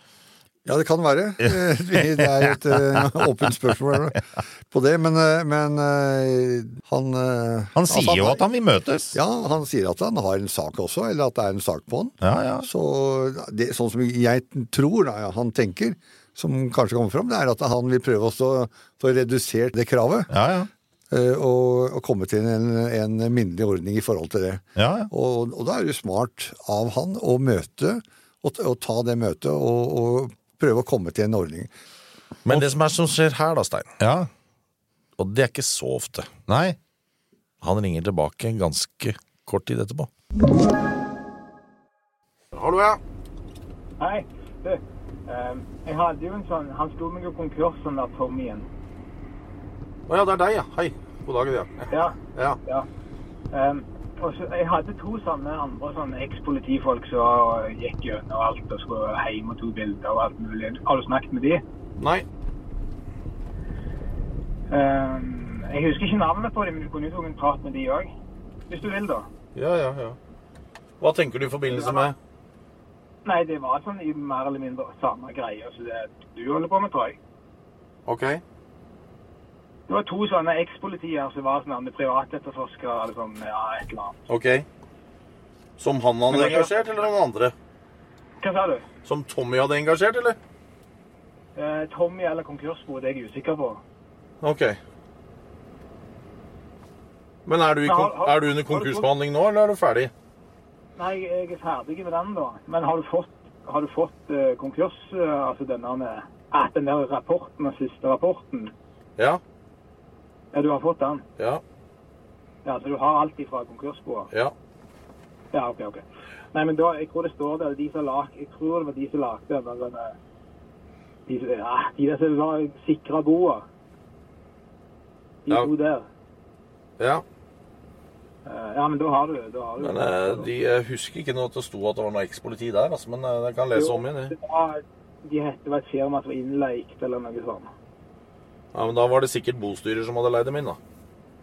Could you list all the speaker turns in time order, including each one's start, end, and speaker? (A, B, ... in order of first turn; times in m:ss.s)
0:00.6-0:08.4 A
0:07.8-0:09.2 B
0:09.1-0:20.3 A
0:12.2-0:12.7 B
0:20.3-0:20.7 B
0:21.1-0:31.7 A
0:24.8-0:25.1 B
0:32.4-0:34.0 C
0:34.0-0:34.3 B
0:35.2-0:36.3 C
0:36.5-0:36.8 B
0:37.6-0:40.1 C
0:42.5-0:43.0 D
0:44.0-0:48.7 E
0:50.1-0:52.6 D
0:51.9-0:52.9 E
0:53.5-1:01.6 E
1:02.0-1:02.2 D
1:04.7-1:08.1 E
1:08.7-1:09.3 E
1:09.6-1:10.2 D
1:11.0-1:12.2 D
1:11.7-1:12.1 E
1:13.2-1:17.2 E
1:18.1-1:18.4 D
1:19.9-1:24.2 E
1:24.3-1:24.7 D
1:25.8-1:27.5 D
1:26.3-1:26.7 E
1:28.4-1:28.9 E
1:29.0-1:30.4 D
1:31.6-1:33.8 E
1:34.4-1:34.8 D
1:37.5-1:40.1 D
1:37.8-1:39.1 E
1:41.0-1:48.7 E
1:50.5-1:51.2 E
1:52.6-1:54.3 E
1:55.5-2:00.2 E
2:01.3-2:03.6 E
2:05.5-2:06.1 E
2:07.0-2:07.2 D
2:08.5-2:10.5 E
2:09.8-2:14.3 D
2:13.7-2:17.7 E
2:18.7-2:20.8 D